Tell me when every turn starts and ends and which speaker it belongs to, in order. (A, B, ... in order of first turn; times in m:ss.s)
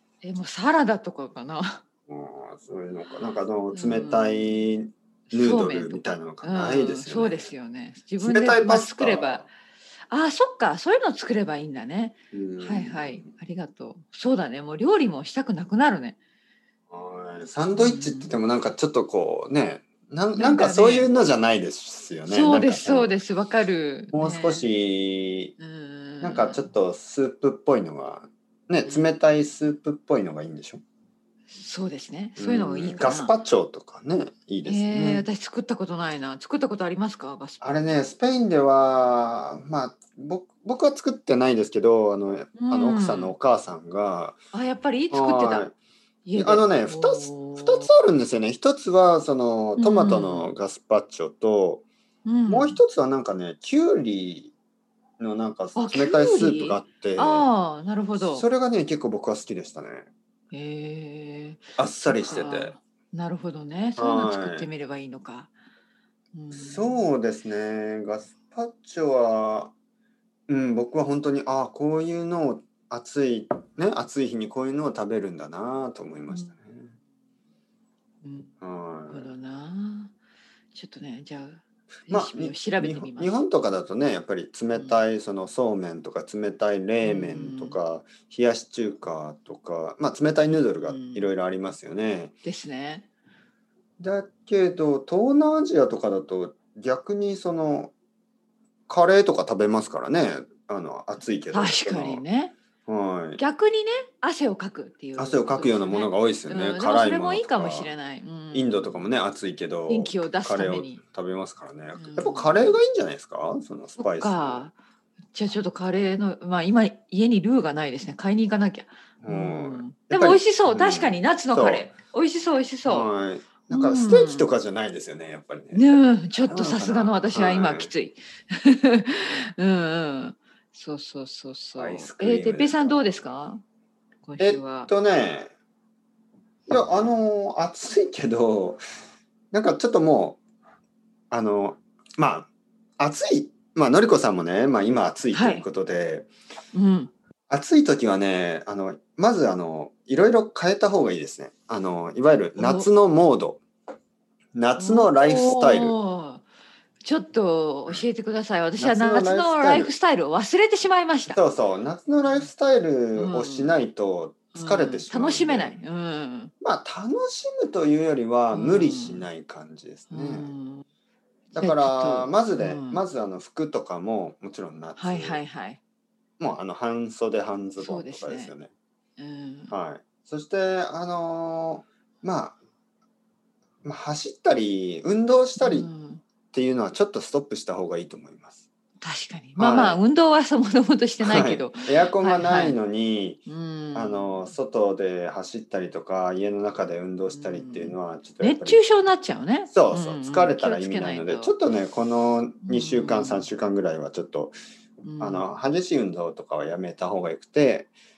0:00.2-0:01.8 A
0:02.1-0:07.5 B
0:03.7-0:04.6 A
0:05.3-0:09.5 A
0:08.2-0:09.4 B
0:10.1-0:16.2 A
0:12.3-0:13.2 B
0:16.9-0:23.1 B
0:17.7-0:18.3 A
0:20.4-0:21.1 A
0:22.3-0:24.7 A
0:24.1-0:25.5 B
0:25.6-0:26.6 A
0:26.2-0:30.8 B
0:28.8-0:29.1 A
0:31.5-0:33.3 A
0:32.4-0:35.2 B
0:34.6-0:37.8 A
0:37.6-0:44.4 B
0:42.6-0:43.3 A
0:44.5-0:45.7 A
0:45.1-0:45.7 B
0:46.2-0:47.9 A
0:46.4-0:51.8 B
0:49.8-0:50.5 A
0:52.2-0:52.8 A
0:52.5-0:54.5 B
0:55.2-0:57.5 B
0:55.8-0:58.4 A
0:58.1-1:00.1 B
1:00.5-1:05.5 A
1:01.8-1:02.7 B
1:04.0-1:04.7 B
1:06.3-1:07.0 A
1:06.5-1:09.7 B
1:10.5-1:16.9 B
1:18.2-1:18.5 A
1:18.6-1:19.3 B
1:19.1-1:20.1 A
1:20.7-1:23.4 A
1:22.1-1:32.3 B
1:24.7-1:25.0 A
1:27.0-1:27.8 A
1:30.5-1:31.3 A
1:32.4-1:33.0 A
1:34.0-1:37.9 B
1:38.9-1:42.2 B
1:41.5-1:42.5 A
1:42.8-1:43.4 B
1:43.4-1:49.0 A
1:45.2-1:47.9 B
1:48.5-1:54.6 B
1:49.9-1:51.0 A
1:52.0-1:52.8 A
1:54.0-1:54.7 A
1:55.3-2:03.1 A
1:59.2-2:01.9 B
2:02.8-2:07.9 B
2:03.7-2:04.5 A
2:05.7-2:13.6 A
2:11.8-2:13.2 B
2:14.2-2:14.9 A
2:14.4-2:15.5 B
2:16.7-2:18.8 B
2:19.5-2:20.4 B
2:21.3-2:26.3 B
2:25.3-2:25.6 A
2:26.7-2:27.1 A
2:27.5-2:33.6 B
2:32.6-2:32.9 A
2:34.5-2:36.0 B
2:34.8-2:36.4 A
2:37.0-2:41.4 A
2:38.8-2:39.9 B
2:41.3-2:45.8 B
2:42.2-2:42.5 A
2:43.2-2:43.8 A
2:44.5-2:46.5 A
2:46.6-2:50.5 B
2:48.5-2:49.3 A
2:50.1-2:50.8 A
2:51.5-2:53.0 A
2:51.5-2:55.4 B
2:55.0-2:55.8 A
2:56.4-2:58.7 B
2:57.8-2:58.5 A
2:59.2-2:59.7 A
2:59.7-3:02.6 B
3:03.8-3:05.9 B
3:05.6-3:06.2 A
3:06.5-3:08.6 B
3:09.0-3:12.8 A
3:09.6-3:10.0 B
3:11.2-3:13.4 B
3:13.5-3:14.5 A
3:13.9-3:18.8 B
3:17.3-3:21.5 A
3:19.7-3:24.6 B
3:22.6-3:23.5 A
3:25.0-3:25.4 A
3:25.2-3:27.9 B